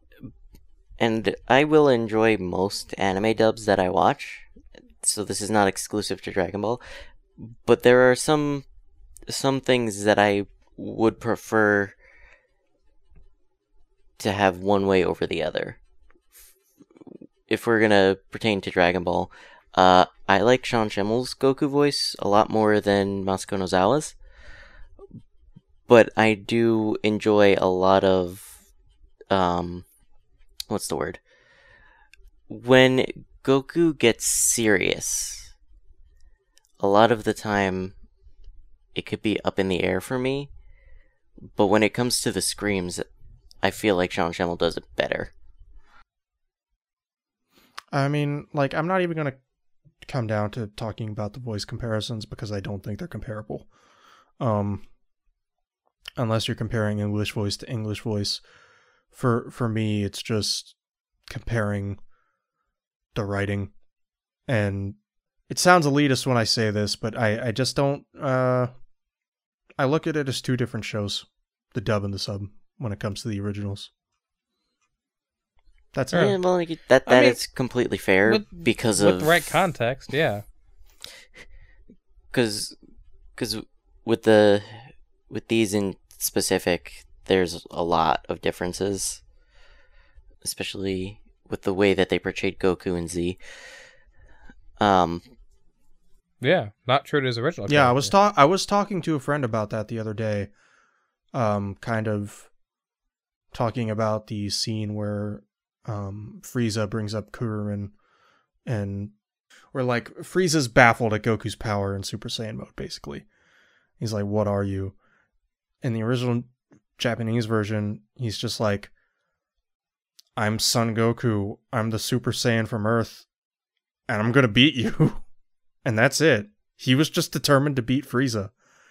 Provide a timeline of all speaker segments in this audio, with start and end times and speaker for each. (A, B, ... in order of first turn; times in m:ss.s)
0:01.0-0:04.5 A
0:05.0-0:06.8 A
0:07.4-0:08.6 A
0:09.3-0:12.0 A
0:14.2-0:15.8 A
0:17.5-0:24.1 A
0:25.9-0:28.5 A
0:29.3-0:29.8 A
0:30.7-0:31.2 A
0:32.5-0:35.5 A
0:36.8-0:37.9 A
0:38.9-0:40.5 A
0:41.5-0:43.0 A
0:43.6-0:45.3 A
0:47.9-0:49.4 B
0:50.0-0:53.7 B
0:54.4-0:54.8 B
0:56.2-0:58.4 B
0:59.1-1:00.7 B
1:01.3-1:02.0 B
1:03.1-1:03.7 B
1:04.5-1:05.0 B
1:05.5-1:08.7 B
1:09.8-1:13.9 B
1:15.9-1:16.3 B
1:16.1-1:19.4 A
1:17.0-1:17.4 C
1:18.2-1:20.4 C
1:22.3-1:22.8 A
1:23.3-1:29.2 A
1:30.4-1:33.4 A
1:34.8-1:35.2 A
1:36.4-1:38.1 C
1:37.7-1:40.5 B
1:41.3-1:42.5 B
1:43.5-1:47.9 B
1:48.6-1:49.1 B
1:49.7-1:53.2 B
1:54.0-1:54.9 B
1:55.8-1:58.9 B
2:00.4-2:03.2 B
2:04.1-2:05.2 B
2:05.8-2:08.5 B